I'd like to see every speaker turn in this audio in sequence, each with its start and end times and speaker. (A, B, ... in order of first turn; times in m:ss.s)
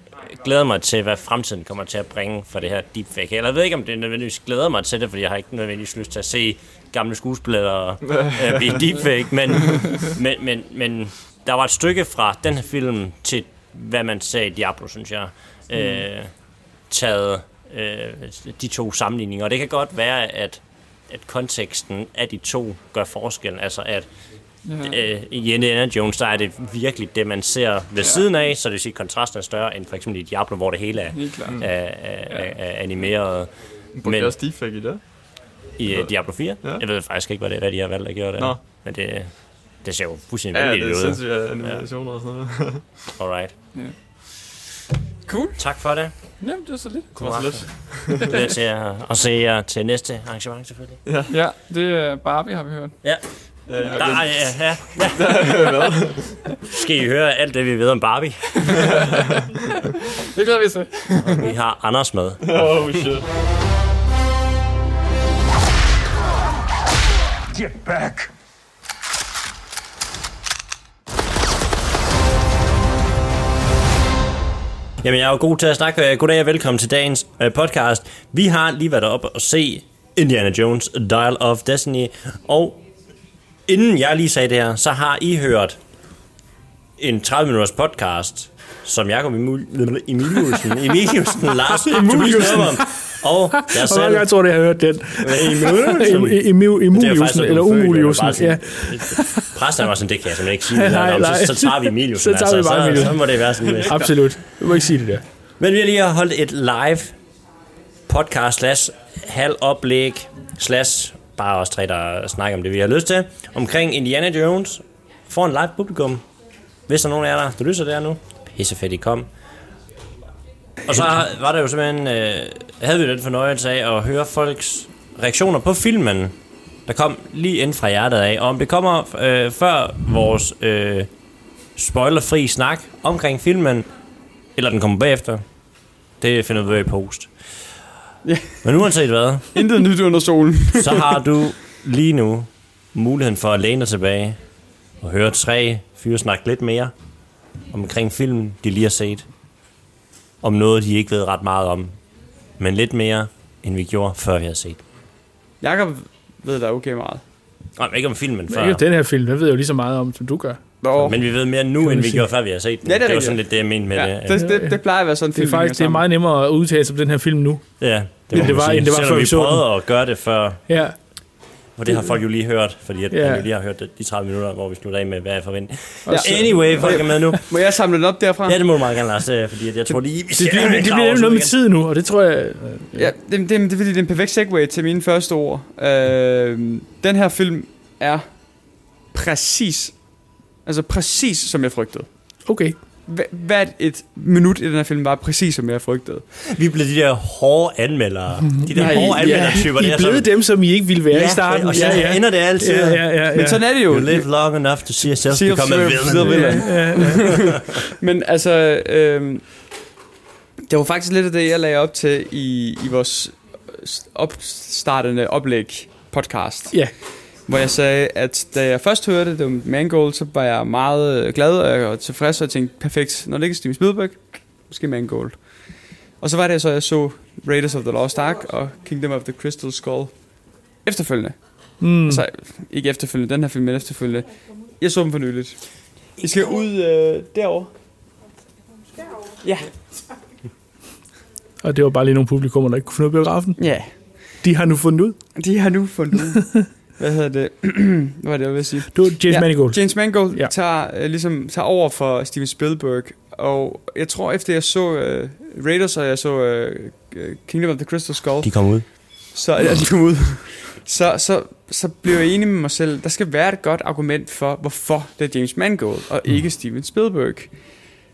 0:00.4-0:16.3 A
0:08.0-0:08.9 B
0:09.5-0:10.0 B
0:16.9-0:24.1 A
0:24.6-0:25.0 C
0:24.8-0:33.5 A
0:31.1-0:31.6 C
0:32.3-0:32.6 C
0:34.0-0:35.0 B
0:34.0-0:34.4 A
0:35.8-0:41.8 A
0:35.9-0:36.8 B
0:40.5-0:42.8 B
0:43.2-0:43.5 A
0:45.3-0:45.6 D
0:45.6-0:46.1 A
0:46.4-0:47.3 C
0:47.2-0:51.0 A
0:47.2-0:48.4 B
0:51.0-0:51.4 B
0:51.3-0:53.0 C
0:53.0-0:55.9 A
0:53.7-0:56.4 B
0:56.7-0:58.9 A
0:58.7-0:59.5 B
1:00.3-1:01.2 C
1:01.2-1:03.1 A
1:02.4-1:03.3 B
1:07.6-1:08.3 E
1:15.0-1:22.8 A
1:23.7-1:25.8 A
1:27.0-1:34.3 A
1:31.8-1:32.9 E
1:33.5-1:39.6 E
1:35.2-1:44.4 A
1:40.6-1:45.2 E
1:43.8-1:44.1 B
1:45.6-1:47.2 A
1:48.1-1:56.2 A
1:56.9-1:59.3 A
2:00.9-2:06.3 A
2:06.9-2:11.1 A
2:11.8-2:13.9 A
2:14.6-2:15.4 A
2:16.2-2:17.7 A
2:18.2-2:18.6 D
2:18.6-2:19.6 A
2:19.5-2:21.0 D
2:20.8-2:24.4 A
2:25.0-2:26.9 A
2:27.7-2:29.3 A
2:30.4-2:31.9 A
2:32.6-2:34.8 A
2:35.6-2:37.2 D
2:37.8-2:38.8 A
2:38.5-2:40.6 E
2:40.8-2:41.2 D
2:41.0-2:44.4 A
2:41.8-2:42.3 E
2:42.8-2:46.0 D
2:44.3-2:49.7 E
2:47.8-2:50.6 A
2:50.7-2:51.0 E
2:51.8-2:57.6 A
2:51.9-2:52.2 E
2:53.1-2:53.5 E
2:56.1-2:57.4 E
2:56.1-2:58.6 D
2:58.5-3:01.6 A
3:00.3-3:03.1 E
3:03.0-3:12.1 D
3:12.5-3:12.8 E
3:13.1-3:16.2 D
3:16.5-3:23.3 A
3:18.5-3:23.7 E
3:18.8-3:19.6 D
3:21.7-3:22.1 D
3:23.3-3:24.4 D
3:23.9-3:26.9 A
3:25.0-3:27.4 D
3:26.4-3:27.6 E
3:28.0-3:29.7 D
3:30.7-3:57.7 D
3:51.8-3:52.2 E
3:59.4-3:59.7 D
4:01.6-4:05.3 E
4:03.6-4:04.2 D
4:05.4-4:27.9 D
4:08.9-4:10.5 E
4:18.4-4:18.9 A